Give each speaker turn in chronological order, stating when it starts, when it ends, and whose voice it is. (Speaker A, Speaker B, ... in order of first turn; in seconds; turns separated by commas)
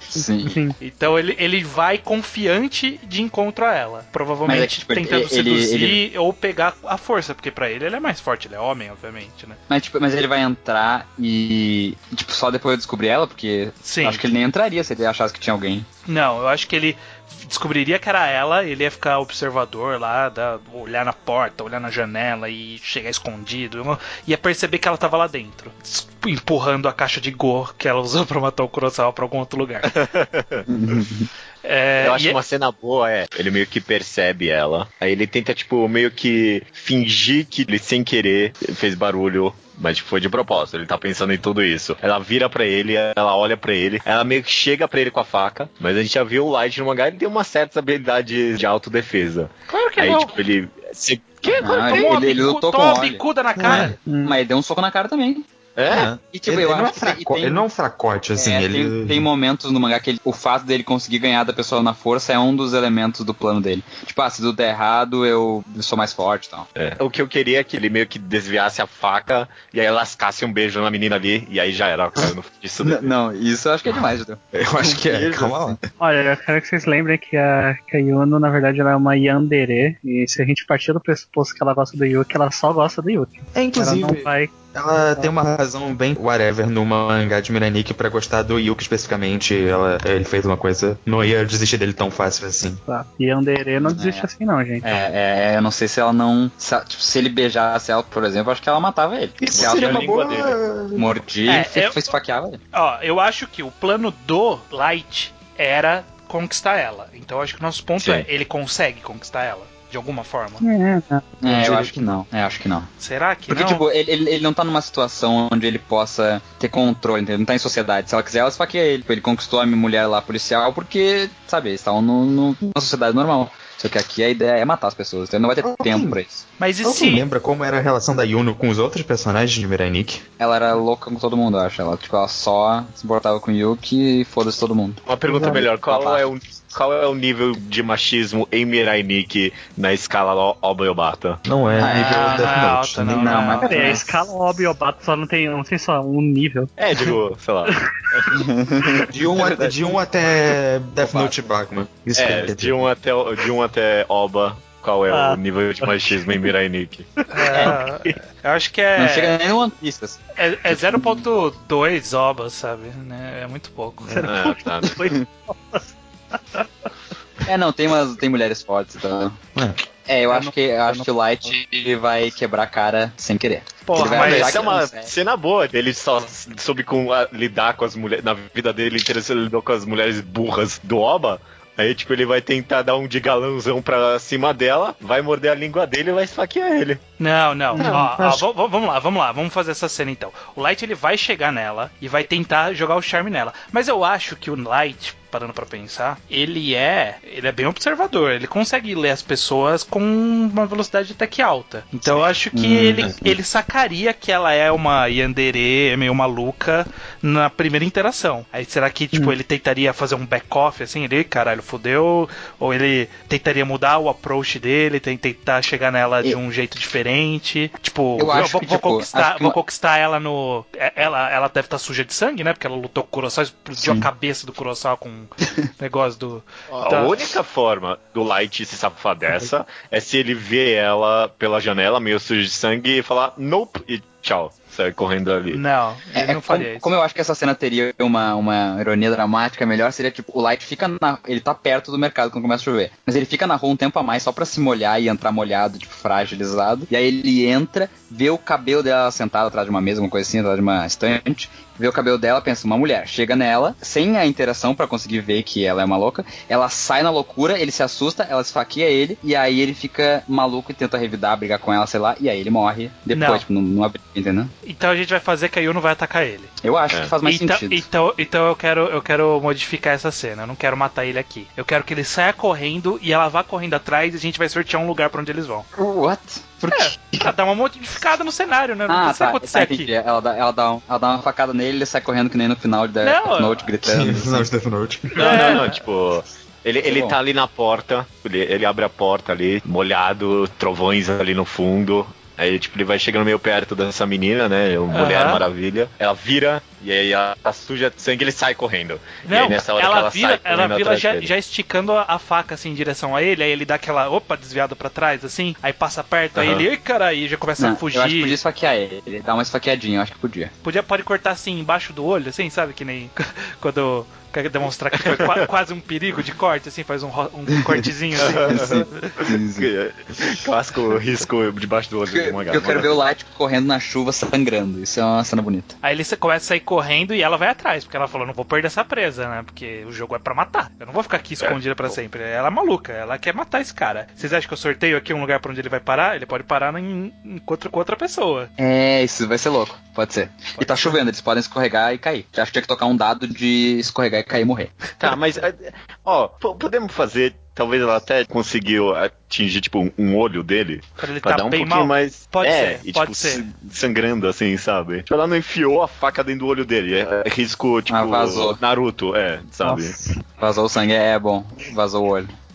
Speaker A: 0.1-0.6, Speaker B: 0.1-0.8, Speaker C: 0.8-9.6, Speaker A: 4.5-6.0, Speaker A: 9.7-15.9, Speaker C: 13.8-14.3, Speaker C: 16.1-29.9, Speaker D: 29.9-31.1, Speaker A: 30.7-31.3, Speaker C: 31.6-32.4, Speaker D: 32.0-52.4, Speaker C: 49.7-50.4, Speaker A: 51.6-55.5, Speaker C: 51.9-54.0, Speaker E: 53.6-53.9, Speaker B: 54.0-54.4, Speaker D: 55.8-56.1, Speaker E: 55.9-59.3, Speaker A: 56.2-57.6, Speaker A: 58.4-66.7, Speaker D: 66.8-73.1, Speaker A: 72.8-75.5, Speaker E: 74.5-75.8, Speaker D: 75.1-75.5, Speaker B: 76.0-84.5, Speaker E: 83.5-92.8, Speaker B: 92.9-94.9, Speaker A: 93.8-94.3, Speaker A: 94.8-100.1, Speaker E: 99.4-101.1, Speaker D: 99.5-100.6, Speaker A: 101.0-102.6, Speaker C: 101.5-102.1, Speaker C: 102.7-110.6, Speaker D: 108.0-108.3, Speaker B: 110.6-111.3, Speaker A: 111.4-112.9, Speaker C: 113.0-113.8, Speaker A: 113.5-126.5, Speaker E: 125.6-126.2, Speaker C: 126.6-127.2, Speaker E: 126.8-130.2, Speaker A: 130.4-136.3, Speaker D: 135.1-141.4, Speaker B: 135.2-135.6, Speaker E: 141.5-143.6, Speaker A: 141.8-142.6, Speaker C: 141.9-144.0, Speaker A: 143.2-144.2, Speaker B: 143.6-146.7, Speaker D: 146.8-148.4, Speaker A: 148.3-149.8, Speaker E: 149.1-152.9, Speaker A: 151.0-151.3, Speaker D: 152.2-157.1, Speaker B: 155.1-156.2, Speaker B: 157.2-158.2, Speaker C: 157.3-159.4, Speaker A: 157.6-157.8, Speaker A: 159.0-161.0, Speaker C: 160.4-164.3, Speaker B: 164.1-166.7, Speaker D: 164.1-165.2, Speaker A: 167.4-169.4, Speaker A: 170.1-175.1, Speaker B: 170.3-171.5, Speaker C: 173.9-174.7, Speaker D: 174.0-187.0, Speaker C: 187.2-227.2, Speaker B: 187.7-188.2, Speaker E: 187.8-188.5, Speaker A: 202.5-203.3, Speaker A: 218.2-219.6, Speaker A: 223.8-224.1, Speaker D: 226.7-235.6, Speaker C: 235.5-236.9, Speaker A: 236.2-264.5, Speaker C: 263.1-263.5, Speaker C: 264.6-266.5, Speaker A: 266.6-267.9, Speaker C: 267.2-275.7, Speaker A: 275.8-277.0, Speaker C: 276.7-279.9, Speaker A: 278.9-284.5, Speaker C: 283.0-283.7, Speaker E: 283.9-285.4, Speaker D: 285.2-301.3, Speaker C: 285.2-285.7, Speaker A: 286.8-287.2, Speaker C: 294.9-295.4, Speaker C: 299.2-308.4, Speaker D: 306.4-306.6, Speaker A: 307.6-310.5, Speaker C: 310.6-319.2, Speaker D: 315.0-315.4, Speaker D: 318.2-322.9, Speaker A: 318.5-319.7, Speaker A: 322.1-325.8, Speaker C: 325.8-338.5, Speaker D: 331.4-331.9, Speaker A: 338.6-344.9, Speaker C: 340.6-341.0, Speaker D: 345.0-359.9, Speaker C: 351.0-353.5, Speaker A: 357.9-358.6, Speaker B: 359.6-360.2, Speaker A: 360.4-362.3